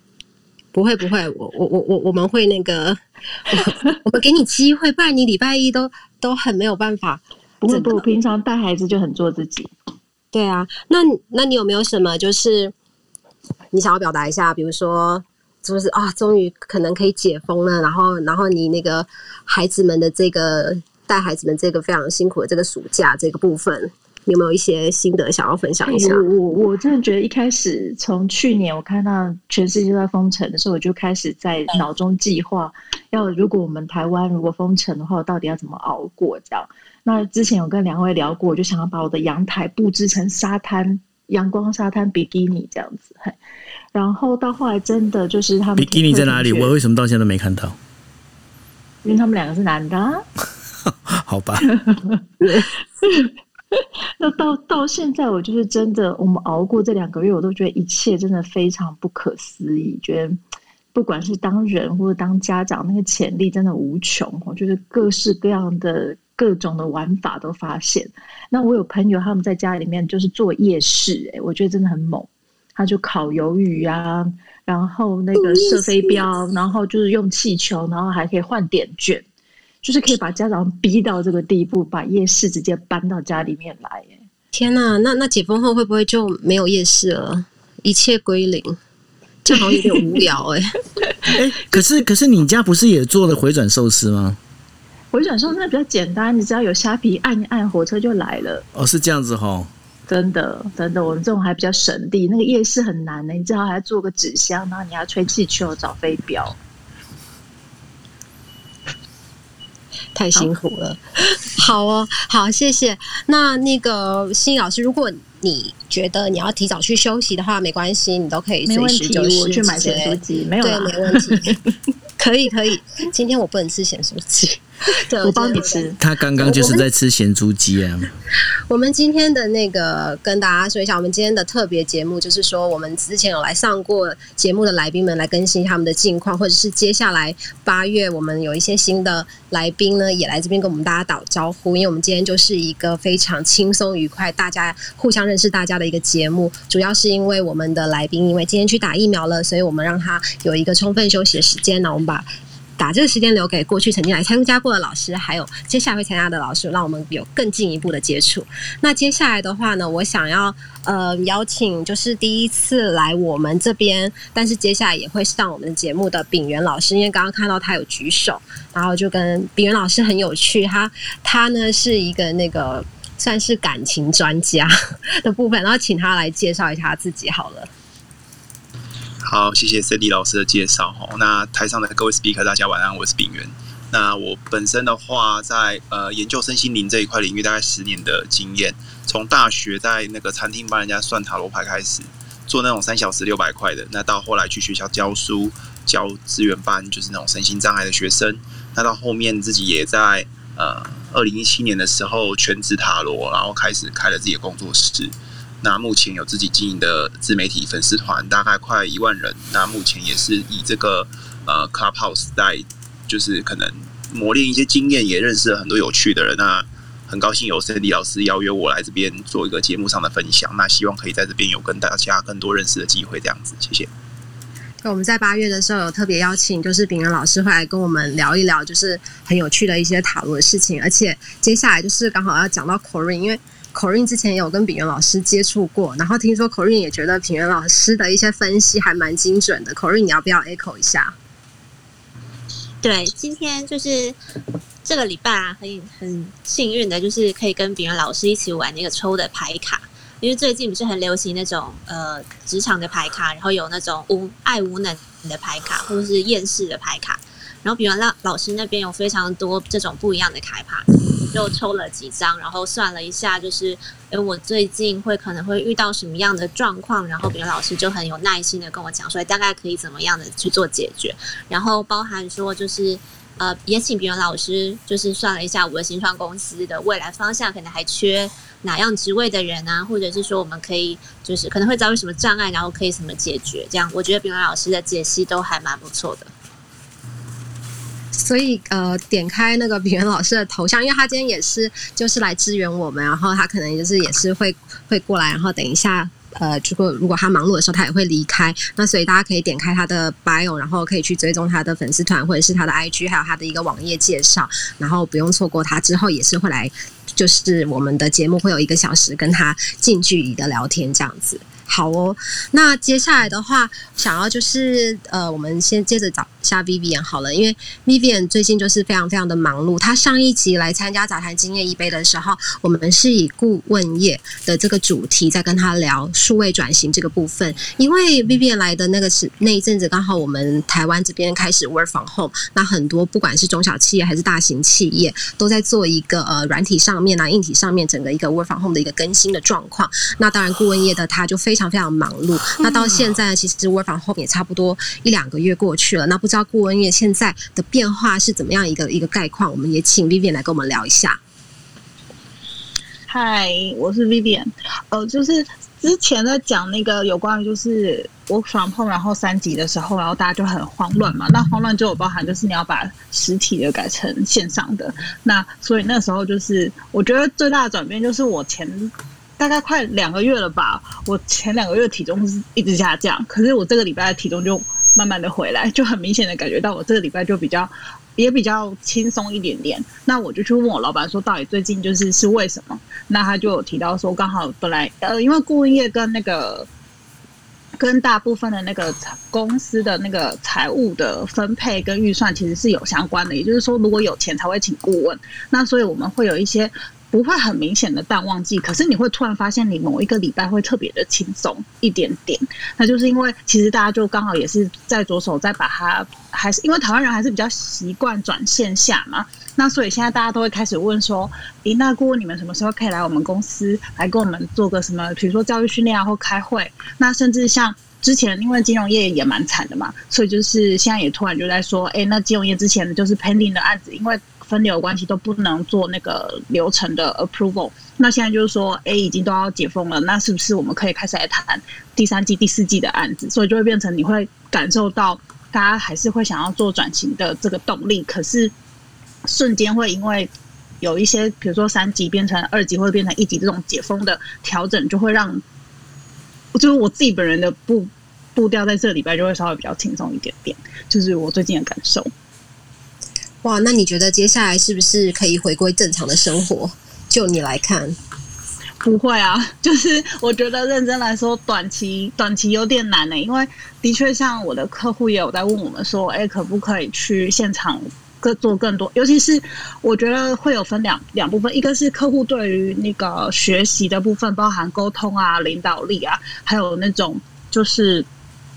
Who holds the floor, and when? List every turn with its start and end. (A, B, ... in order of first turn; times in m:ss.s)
0:00.7-0:08.0 A
0:07.6-0:09.7 B
0:10.3-0:12.7 A
0:13.7-0:26.2 A
0:25.8-0:43.4 B
0:43.9-0:46.7 B
0:45.8-0:47.8 C
0:49.0-0:50.2 B
0:51.1-0:51.7 C
0:51.8-0:52.2 B
0:53.0-1:00.4 B
1:00.9-1:19.2 B
1:15.4-1:16.2 A
1:19.8-1:24.3 B
1:24.5-1:28.8 A
1:29.4-1:30.8 A
1:29.5-1:30.2 B
1:31.3-1:34.4 C
1:35.1-1:38.6 B
1:38.7-1:39.7 C
1:40.1-1:46.6 B
1:50.1-2:01.4 A
1:58.6-2:01.6 B
2:02.2-2:05.8 A
2:04.9-2:06.0 B
2:06.0-2:08.1 C
2:06.4-2:06.8 A
2:08.7-2:57.7 A
2:59.2-3:43.9 D
3:44.8-4:01.2 A
4:02.8-4:04.2 E
4:04.8-4:46.3 E
4:48.1-5:51.2 A
5:53.1-6:26.7 F
6:27.8-7:18.5 F
7:19.2-7:25.4 F
7:26.5-7:32.1 F
7:33.4-7:38.0 A
7:38.8-7:58.1 F